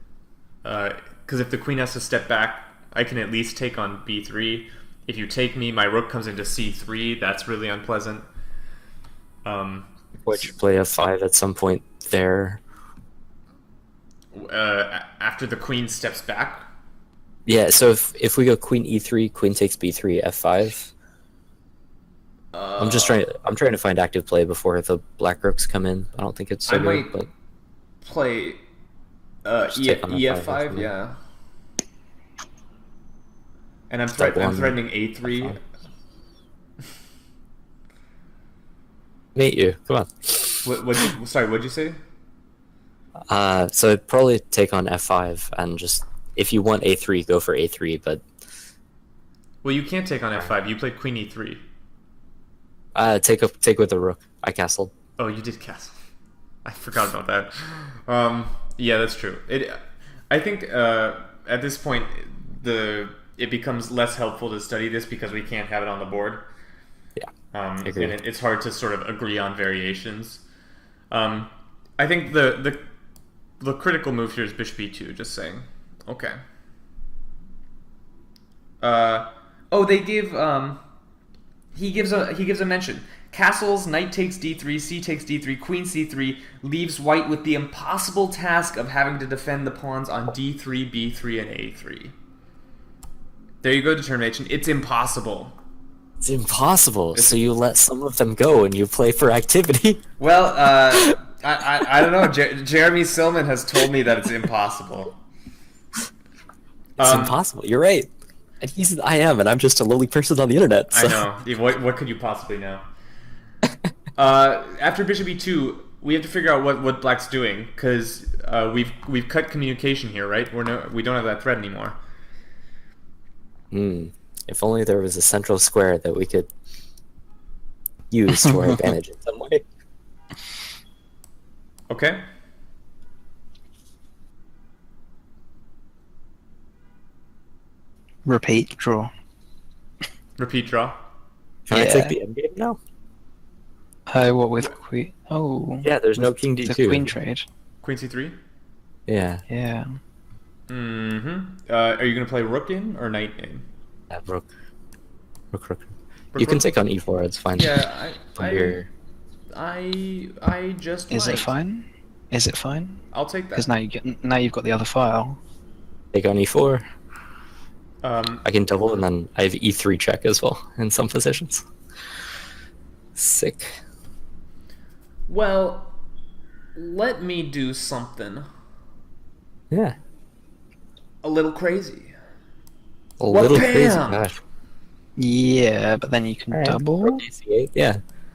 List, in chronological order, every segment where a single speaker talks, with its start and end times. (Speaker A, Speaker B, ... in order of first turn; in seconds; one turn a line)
Speaker A: 0.6-8.2
Speaker A: 9.4-9.9
Speaker B: 10.2-12.6
Speaker A: 14.3-16.6
Speaker B: 17.4-20.9
Speaker A: 22.5-23.2
Speaker B: 22.8-27.3
Speaker A: 26.7-27.1
Speaker A: 28.0-28.6
Speaker A: 29.4-31.1
Speaker B: 29.7-30.9
Speaker A: 33.9-35.6
Speaker B: 34.1-34.8
Speaker B: 39.3-40.7
Speaker A: 40.6-42.0
Speaker B: 43.3-48.2
Speaker A: 49.6-51.6
Speaker B: 52.9-54.9
Speaker A: 55.2-55.9
Speaker A: 56.6-59.8
Speaker A: 60.3-66.5
Speaker A: 67.5-70.4
Speaker B: 67.8-68.1
Speaker A: 71.1-72.9
Speaker A: 73.6-76.4
Speaker A: 78.8-80.8
Speaker A: 81.7-92.1
Speaker A: 93.6-95.5
Speaker B: 96.2-100.0
Speaker A: 97.1-97.4
Speaker A: 100.2-105.2
Speaker A: 107.0-107.4
Speaker B: 107.0-108.1
Speaker B: 108.6-111.2
Speaker A: 110.9-112.8
Speaker A: 114.2-122.0
Speaker B: 123.7-126.5
Speaker B: 128.1-129.6
Speaker A: 131.9-132.2
Speaker C: 138.2-139.1
Speaker A: 140.4-141.0
Speaker B: 141.7-142.8
Speaker C: 141.7-142.2
Speaker C: 144.1-147.4
Speaker B: 145.8-147.1
Speaker A: 147.8-148.3
Speaker B: 149.1-149.4
Speaker C: 149.5-149.9
Speaker A: 150.7-153.6
Speaker B: 154.1-154.4
Speaker B: 155.5-157.8
Speaker A: 156.3-156.7
Speaker A: 157.5-158.8
Speaker B: 158.3-158.9
Speaker A: 159.5-161.5
Speaker C: 161.1-163.0
Speaker A: 163.1-163.7
Speaker C: 163.5-165.4
Speaker B: 166.1-166.8
Speaker A: 168.0-168.4
Speaker B: 168.4-171.6
Speaker B: 173.2-173.7
Speaker A: 175.3-176.0
Speaker A: 176.7-178.5
Speaker B: 179.7-179.9
Speaker A: 181.2-182.1
Speaker B: 183.2-184.4
Speaker A: 183.3-184.2
Speaker C: 185.2-187.2
Speaker B: 186.5-188.0